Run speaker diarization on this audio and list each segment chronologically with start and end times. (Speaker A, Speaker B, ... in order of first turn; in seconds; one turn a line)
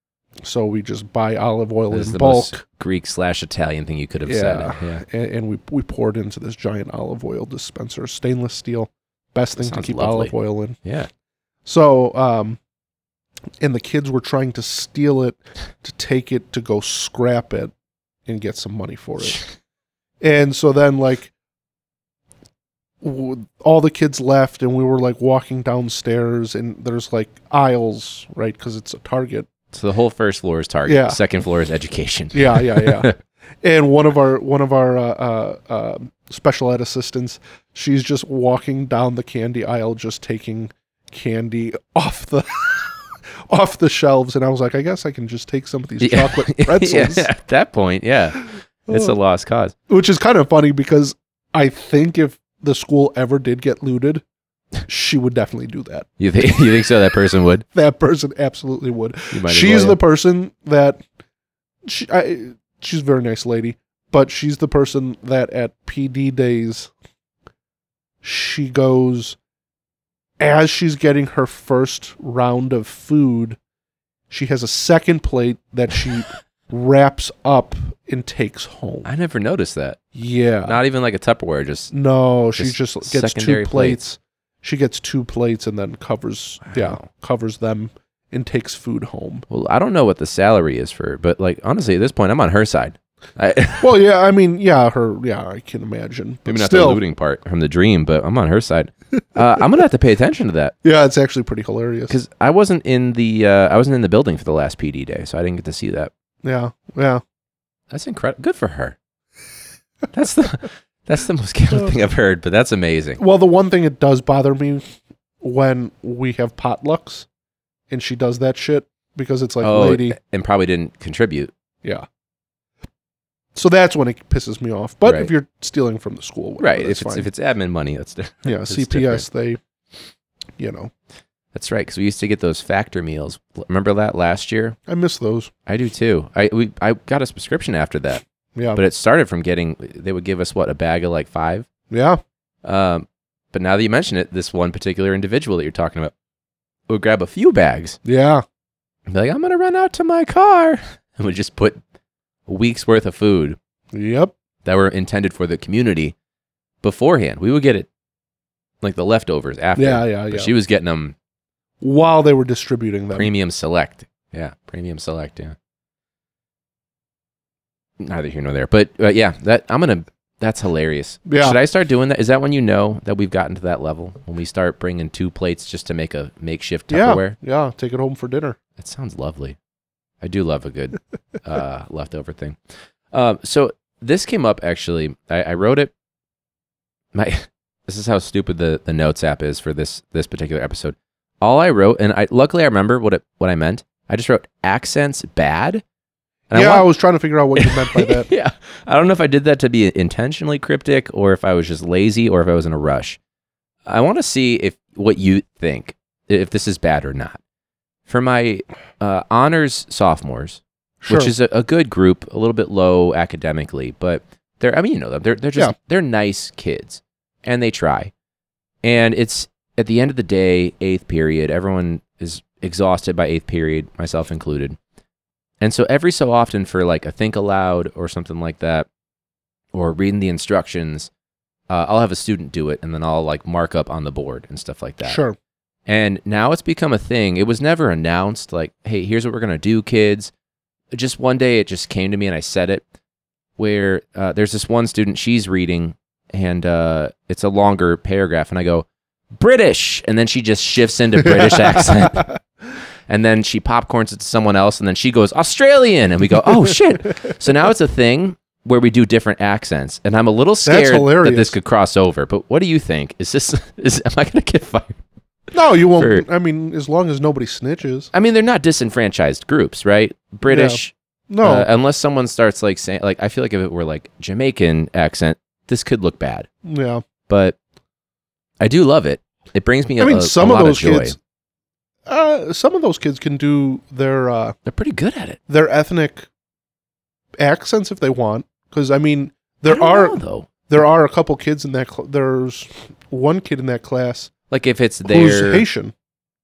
Speaker A: 0.4-2.6
Speaker B: 1.9-5.0
Speaker A: 4.2-10.8
Speaker B: 9.6-11.1
Speaker A: 11.7-12.6
Speaker A: 13.6-17.7
Speaker A: 18.2-19.4
Speaker B: 19.2-19.5
Speaker A: 20.2-21.3
Speaker A: 23.0-29.5
Speaker B: 29.7-33.1
Speaker A: 30.9-31.2
Speaker A: 32.3-47.3
Speaker B: 46.0-49.8
Speaker A: 48.9-49.1
Speaker A: 49.9-54.2
Speaker A: 54.9-56.1
Speaker B: 56.2-57.6
Speaker A: 57.7-61.0
Speaker B: 59.3-60.0
Speaker A: 61.9-66.9
Speaker A: 68.2-69.4
Speaker A: 70.4-73.6
Speaker A: 74.3-79.1
Speaker B: 79.0-80.0
Speaker A: 80.2-80.8
Speaker B: 80.6-81.9
Speaker A: 81.9-89.4
Speaker B: 82.6-84.0
Speaker B: 86.6-87.1
Speaker B: 89.5-93.9
Speaker A: 93.8-97.0
Speaker B: 96.5-100.8
Speaker A: 100.8-102.2
Speaker B: 102.1-106.1
Speaker A: 106.4-107.2
Speaker B: 107.9-109.0
Speaker B: 110.1-113.2
Speaker A: 113.2-117.3
Speaker A: 117.9-120.2
Speaker B: 119.6-121.5
Speaker A: 123.5-127.3
Speaker B: 125.0-125.3
Speaker B: 126.6-129.3
Speaker A: 128.4-129.6
Speaker A: 130.6-130.9
Speaker B: 131.5-134.8
Speaker A: 134.9-135.5
Speaker B: 135.7-141.7
Speaker A: 138.6-138.8
Speaker A: 141.9-142.2
Speaker B: 142.6-146.1
Speaker B: 146.9-148.0
Speaker A: 148.1-148.4
Speaker B: 149.1-151.8
Speaker B: 152.5-153.6
Speaker A: 153.9-154.3
Speaker B: 154.6-156.2
Speaker B: 156.8-157.9
Speaker B: 158.8-161.2
Speaker A: 159.8-160.5
Speaker A: 161.8-163.3
Speaker B: 163.1-165.6
Speaker B: 168.0-177.3
Speaker A: 171.3-171.6
Speaker A: 176.9-178.6
Speaker B: 178.8-179.6
Speaker B: 180.2-182.6
Speaker B: 183.1-185.9
Speaker B: 187.1-195.8
Speaker B: 196.5-196.9
Speaker A: 196.5-198.3
Speaker B: 197.6-203.2
Speaker B: 203.8-207.4
Speaker B: 208.1-218.1
Speaker A: 211.0-211.3
Speaker B: 218.8-224.8
Speaker B: 225.6-228.9
Speaker B: 229.7-231.1
Speaker B: 231.7-235.2
Speaker A: 235.0-235.4
Speaker B: 235.8-240.3
Speaker B: 240.9-242.8
Speaker B: 243.6-252.3
Speaker A: 251.3-252.4
Speaker B: 253.1-265.0
Speaker A: 260.6-261.6
Speaker A: 265.5-268.1
Speaker B: 265.9-266.2
Speaker B: 268.1-276.5
Speaker A: 270.5-271.7
Speaker A: 276.6-277.0
Speaker B: 277.3-277.6
Speaker B: 278.6-281.2
Speaker A: 280.0-281.2
Speaker A: 282.1-284.6
Speaker B: 284.7-285.4
Speaker A: 285.5-286.3
Speaker A: 287.4-294.3
Speaker B: 289.7-290.5
Speaker B: 294.5-295.7
Speaker A: 295.1-295.9